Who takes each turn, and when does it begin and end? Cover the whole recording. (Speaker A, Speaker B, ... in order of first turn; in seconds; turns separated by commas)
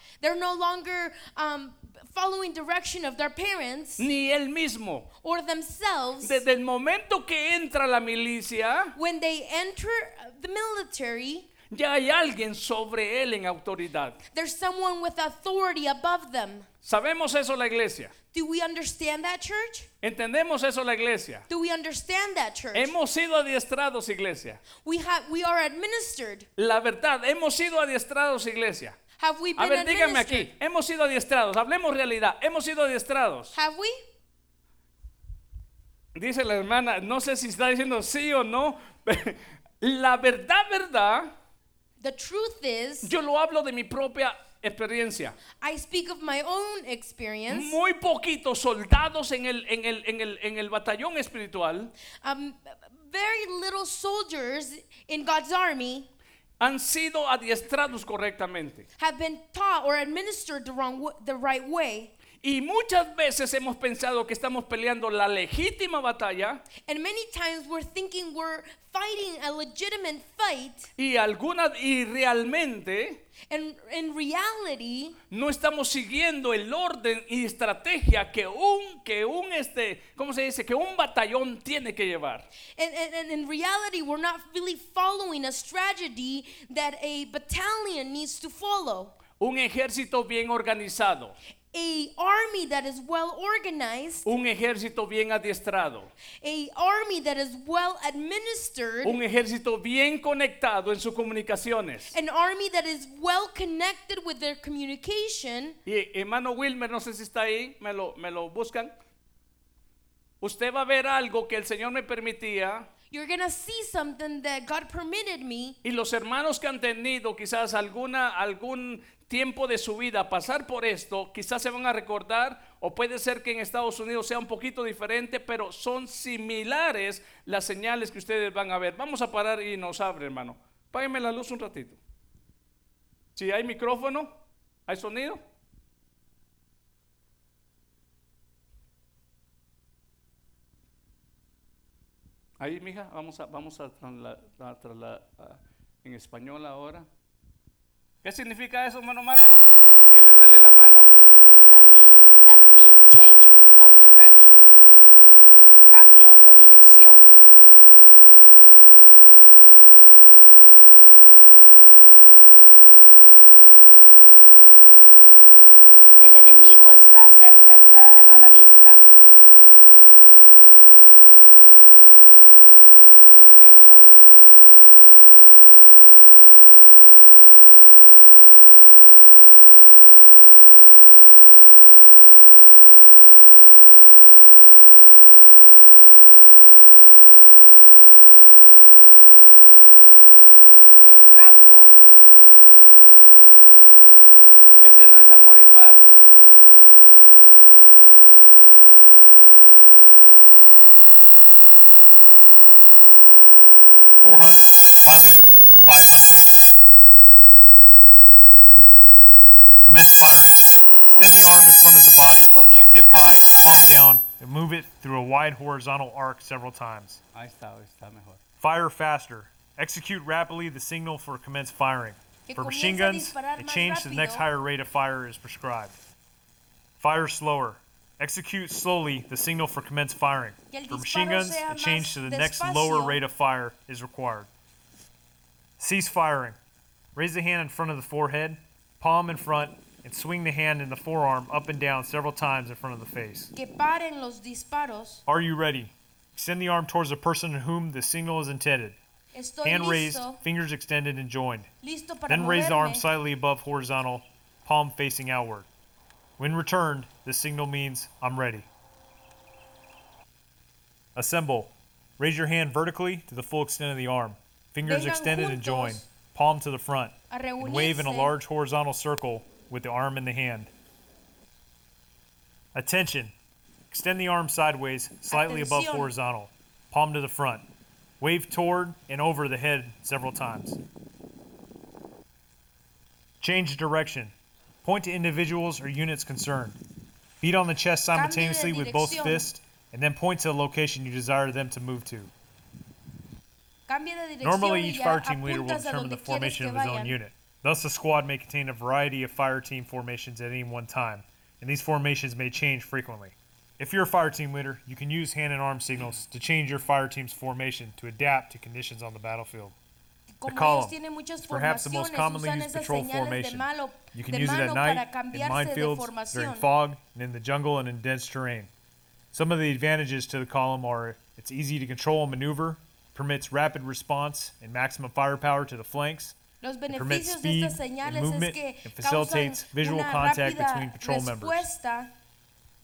Speaker A: 0.2-4.1, Speaker B: 4.0-5.1, Speaker A: 5.2-6.4, Speaker B: 6.2-8.9, Speaker A: 8.9-11.5, Speaker B: 11.7-14.2, Speaker A: 14.3-16.7, Speaker B: 16.8-18.1, Speaker A: 18.3-19.9, Speaker B: 20.0-21.5, Speaker A: 21.5-22.9, Speaker B: 22.7-24.6, Speaker A: 24.8-26.5, Speaker B: 26.6-29.0, Speaker A: 29.2-30.5, Speaker B: 29.6-33.5, Speaker A: 33.5-34.0, Speaker B: 36.1-41.3, Speaker A: 42.0-43.1, Speaker B: 43.0-45.4, Speaker A: 45.6-47.8, Speaker B: 47.5-51.9, Speaker A: 52.2-56.1, Speaker B: 56.6-58.9, Speaker A: 59.0-62.1, Speaker B: 62.4-66.6, Speaker A: 66.8-70.9, Speaker B: 71.0-73.2, Speaker A: 73.5-75.2, Speaker B: 75.3-82.5, Speaker A: 82.8-89.2, Speaker B: 89.4-91.3, Speaker A: 91.7-94.3, Speaker B: 94.2-96.1, Speaker A: 96.4-99.2, Speaker B: 99.0-102.2, Speaker A: 102.1-105.8, Speaker B: 105.8-108.9, Speaker B: 110.4-112.9, Speaker A: 113.1-115.8, Speaker B: 115.8-132.0, Speaker B: 133.3-135.4, Speaker B: 142.6-147.1, Speaker B: 148.2-151.1, Speaker A: 151.4-154.7, Speaker A: 155.9-157.4, Speaker A: 166.2-169.1, Speaker B: 173.3-174.2, Speaker A: 191.0-192.0, Speaker B: 194.8-196.2, Speaker C: 204.2-206.7, Speaker C: 209.8-217.2, Speaker A: 211.1-211.8, Speaker A: 212.5-214.0, Speaker B: 217.3-218.4, Speaker C: 218.6-225.9, Speaker A: 222.5-224.4, Speaker C: 227.0-234.5, Speaker A: 230.7-233.2, Speaker C: 235.8-236.6, Speaker C: 237.1-243.5, Speaker A: 243.5-245.2, Speaker C: 245.3-249.0, Speaker A: 249.3-250.4, Speaker C: 249.6-251.7, Speaker A: 251.8-253.1, Speaker C: 252.3-255.7, Speaker C: 256.4-258.7, Speaker C: 261.1-270.7, Speaker A: 264.8-266.0, Speaker A: 267.3-268.4, Speaker C: 272.7-273.3, Speaker C: 273.9-277.6, Speaker A: 275.3-276.1, Speaker C: 278.2-280.8, Speaker C: 283.4-284.3, Speaker C: 284.8-286.8, Speaker C: 287.4-292.3, Speaker A: 288.1-289.5, Speaker A: 293.9-297.2, Speaker C: 294.4-309.7, Speaker A: 310.4-316.7, Speaker C: 310.5-310.9, Speaker C: 311.5-318.7, Speaker C: 319.3-326.4, Speaker A: 326.6-332.1, Speaker C: 326.9-331.7